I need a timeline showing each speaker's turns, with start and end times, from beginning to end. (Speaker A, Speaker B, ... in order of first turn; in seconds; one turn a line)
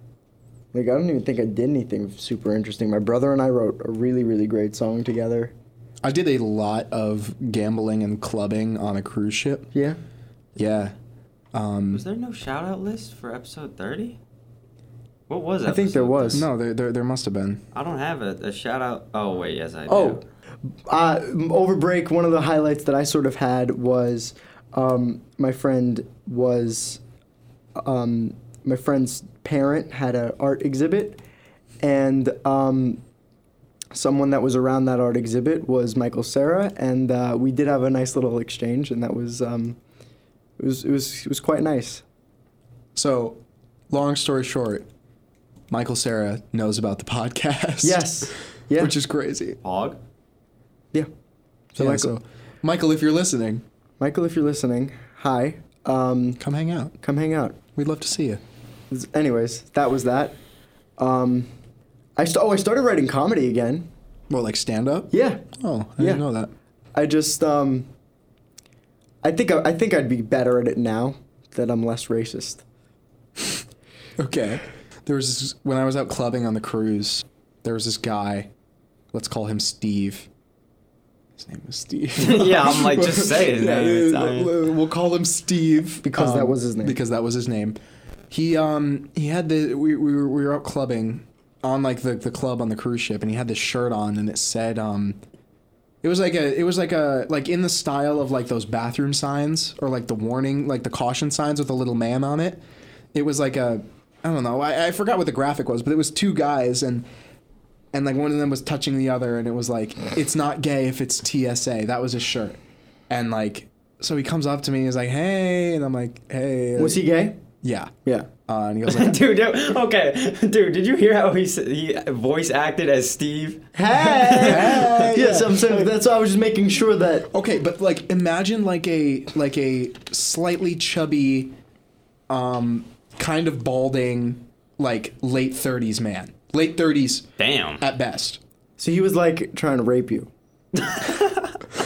Speaker A: 0.7-5.5
Speaker B: 6.0-9.7
Speaker A: 9.7-10.0
Speaker B: 10.6-10.9
Speaker B: 11.5-12.0
Speaker C: 11.9-14.2
Speaker C: 15.3-16.4
Speaker A: 15.7-16.4
Speaker B: 16.3-17.6
Speaker C: 17.7-20.2
Speaker A: 19.9-20.2
Speaker A: 20.9-27.0
Speaker A: 27.8-31.2
Speaker A: 31.8-33.0
Speaker A: 33.9-39.8
Speaker A: 40.6-42.0
Speaker B: 42.9-44.9
Speaker B: 45.7-48.1
Speaker A: 47.8-48.9
Speaker B: 48.8-49.6
Speaker C: 49.6-50.0
Speaker A: 51.7-52.1
Speaker B: 51.8-53.6
Speaker A: 54.0-56.4
Speaker B: 56.4-56.9
Speaker A: 57.0-57.6
Speaker B: 57.8-58.4
Speaker A: 58.9-60.3
Speaker A: 61.0-61.5
Speaker A: 62.1-63.9
Speaker B: 64.3-66.5
Speaker A: 65.1-65.4
Speaker A: 66.0-66.2
Speaker A: 66.9-67.9
Speaker A: 69.2-72.6
Speaker B: 74.2-78.5
Speaker B: 79.1-80.3
Speaker B: 81.4-87.8
Speaker C: 82.2-84.5
Speaker A: 86.0-87.0
Speaker B: 88.3-95.2
Speaker B: 96.0-102.6
Speaker B: 103.1-107.0
Speaker B: 107.9-112.6
Speaker B: 113.1-117.0
Speaker A: 116.8-117.4
Speaker B: 117.6-117.9
Speaker B: 118.4-119.2
Speaker C: 118.9-125.1
Speaker A: 123.7-127.3
Speaker B: 124.2-125.8
Speaker B: 127.3-131.5
Speaker B: 132.3-137.3
Speaker C: 137.4-137.8
Speaker B: 137.8-138.4
Speaker A: 138.8-140.3
Speaker C: 140.8-141.5